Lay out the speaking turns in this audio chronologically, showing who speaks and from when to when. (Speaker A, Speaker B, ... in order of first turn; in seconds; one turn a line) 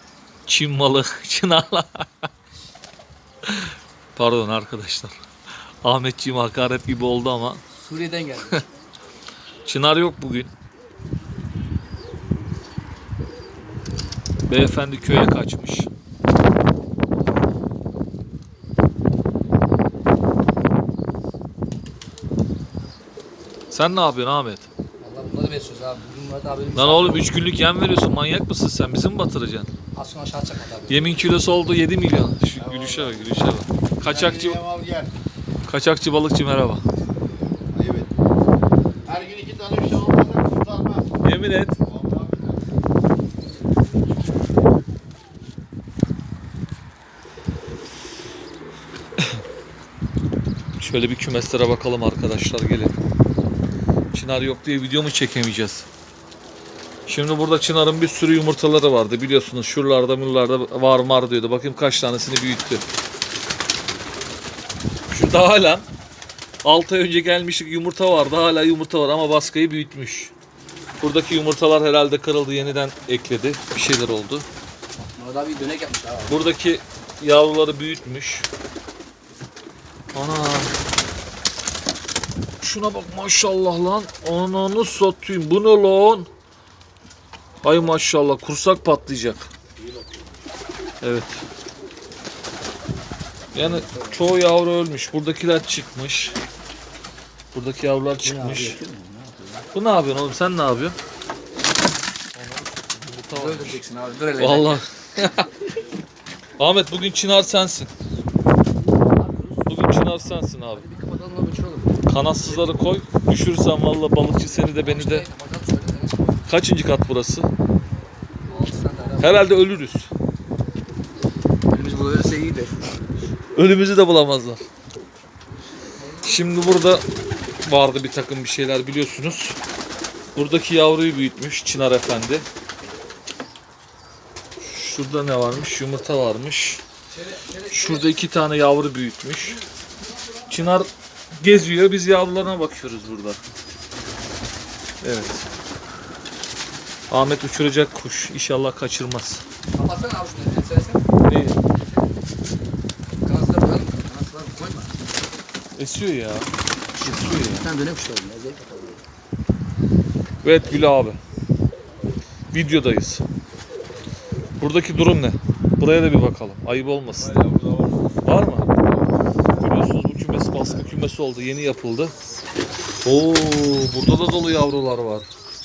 Speaker A: 0.5-2.3
Speaker A: 3.5-5.2
Speaker A: 5.8-7.6
Speaker B: 7.7-8.6
Speaker A: 9.7-10.5
Speaker A: 14.5-15.9
Speaker A: 23.7-24.7
Speaker B: 25.0-27.4
Speaker A: 26.7-29.7
Speaker B: 29.9-31.2
Speaker A: 30.9-34.6
Speaker C: 32.5-33.4
Speaker C: 34.0-35.1
Speaker A: 35.6-36.8
Speaker C: 37.7-38.1
Speaker C: 39.0-41.1
Speaker A: 41.2-41.8
Speaker C: 41.8-42.6
Speaker A: 50.8-53.0
Speaker A: 54.1-55.9
Speaker A: 57.1-62.8
Speaker A: 65.1-65.9
Speaker A: 66.6-70.3
Speaker A: 71.0-74.5
Speaker B: 75.2-76.5
Speaker A: 76.3-78.5
Speaker A: 80.1-80.7
Speaker A: 82.6-86.3
Speaker A: 87.6-89.5
Speaker C: 89.8-90.2
Speaker A: 91.0-91.4
Speaker A: 93.5-96.4
Speaker B: 93.5-94.2
Speaker A: 97.5-98.8
Speaker B: 98.2-99.7
Speaker A: 99.7-101.0
Speaker A: 102.3-103.8
Speaker B: 103.3-104.8
Speaker A: 104.4-105.5
Speaker A: 106.6-107.9
Speaker B: 109.2-109.8
Speaker A: 109.7-110.9
Speaker B: 110.7-112.0
Speaker A: 112.1-115.3
Speaker B: 114.8-116.5
Speaker A: 116.5-117.5
Speaker B: 118.5-119.5
Speaker A: 119.2-120.1
Speaker B: 121.7-123.0
Speaker A: 123.5-124.7
Speaker B: 126.0-126.5
Speaker A: 126.2-127.0
Speaker A: 127.6-129.6
Speaker A: 130.3-132.5
Speaker A: 134.6-136.8
Speaker B: 137.1-138.2
Speaker A: 137.7-139.6
Speaker A: 140.5-143.4
Speaker A: 145.0-145.5
Speaker A: 147.1-149.4
Speaker B: 149.7-151.0
Speaker A: 151.2-151.6
Speaker B: 153.2-154.9
Speaker A: 155.8-156.5
Speaker B: 157.0-159.0
Speaker A: 157.0-157.6
Speaker A: 160.4-161.2
Speaker A: 162.5-163.2
Speaker A: 164.6-167.3
Speaker C: 167.2-168.2
Speaker A: 168.2-168.7
Speaker A: 169.6-172.1
Speaker A: 173.0-175.3